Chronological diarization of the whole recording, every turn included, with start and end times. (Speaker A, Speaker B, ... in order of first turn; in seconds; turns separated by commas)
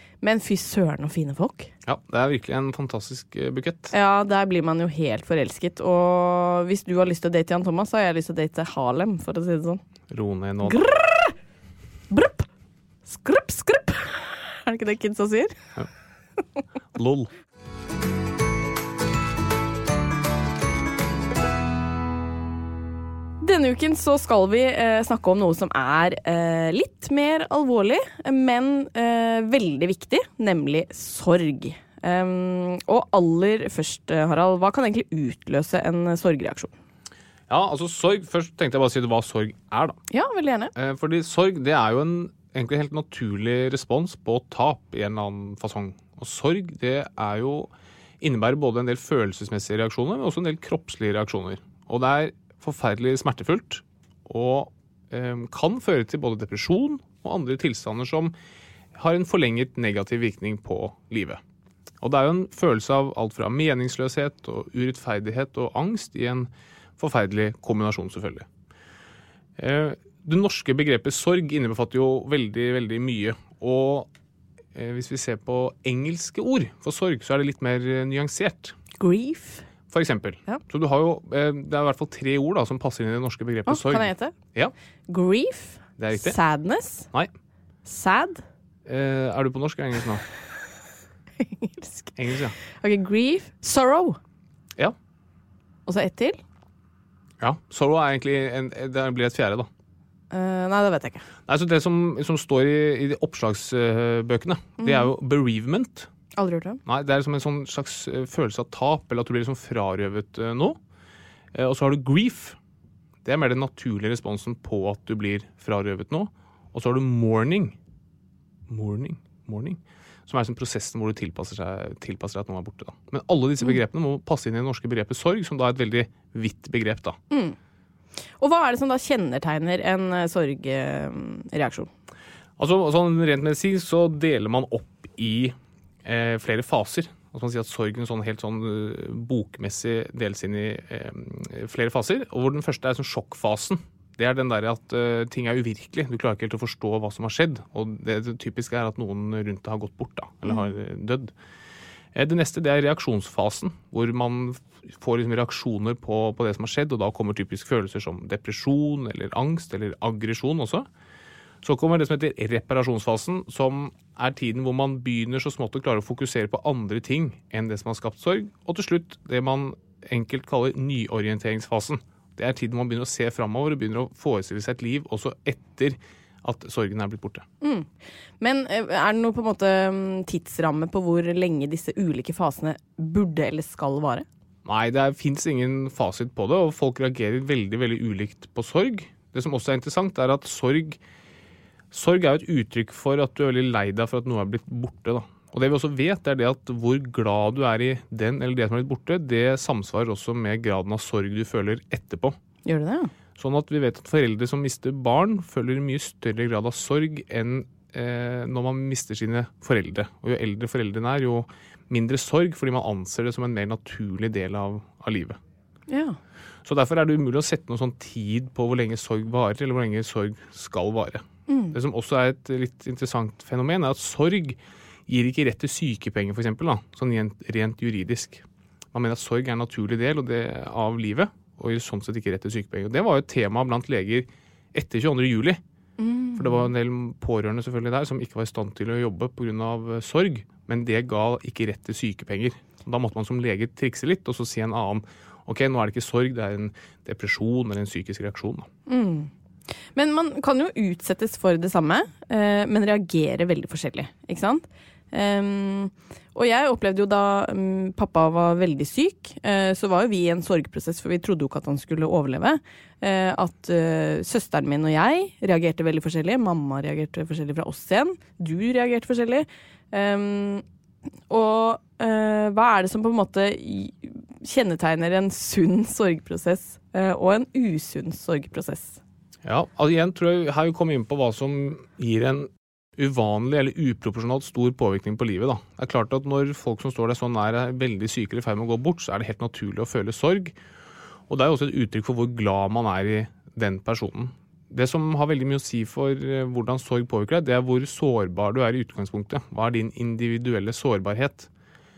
Speaker A: 0.2-1.7, Speaker B: 1.9-3.9, Speaker A: 3.9-9.8, Speaker B: 10.1-10.8, Speaker A: 10.6-11.3, Speaker A: 12.1-12.4, Speaker A: 13.1-15.5, Speaker B: 16.9-17.3, Speaker A: 23.4-36.7, Speaker B: 37.5-40.0, Speaker A: 40.1-40.7, Speaker B: 40.7-47.7, Speaker B: 48.2-58.3, Speaker B: 58.9-61.4, Speaker B: 62.0-68.5, Speaker B: 69.6-74.1, Speaker B: 74.7-78.7, Speaker A: 79.0-79.7, Speaker B: 79.9-84.7, Speaker A: 83.7-84.3, Speaker A: 85.1-87.1, Speaker B: 86.0-86.4, Speaker A: 87.8-88.4, Speaker B: 88.9-90.2, Speaker A: 91.4-92.1, Speaker B: 92.2-92.5, Speaker A: 92.8-94.2, Speaker A: 95.8-96.4, Speaker B: 97.4-99.7, Speaker A: 100.3-101.2, Speaker B: 101.5-106.1, Speaker A: 104.8-105.1, Speaker A: 106.4-106.8, Speaker B: 106.8-110.8, Speaker B: 111.5-112.5, Speaker B: 113.2-117.8, Speaker B: 118.7-127.2, Speaker A: 127.3-127.5, Speaker A: 128.4-131.9, Speaker B: 132.6-151.3, Speaker B: 152.1-160.8, Speaker B: 161.6-177.4, Speaker A: 177.6-177.9, Speaker A: 178.4-184.2, Speaker B: 184.6-191.0, Speaker B: 191.9-202.3, Speaker A: 202.7-203.1, Speaker B: 203.4-215.4, Speaker A: 215.9-216.2, Speaker B: 216.6-235.6, Speaker A: 221.5-221.8, Speaker A: 236.0-236.7, Speaker B: 236.3-248.7, Speaker A: 248.9-249.3, Speaker A: 249.9-270.6, Speaker A: 271.3-279.0, Speaker B: 279.4-290.5, Speaker B: 291.3-301.5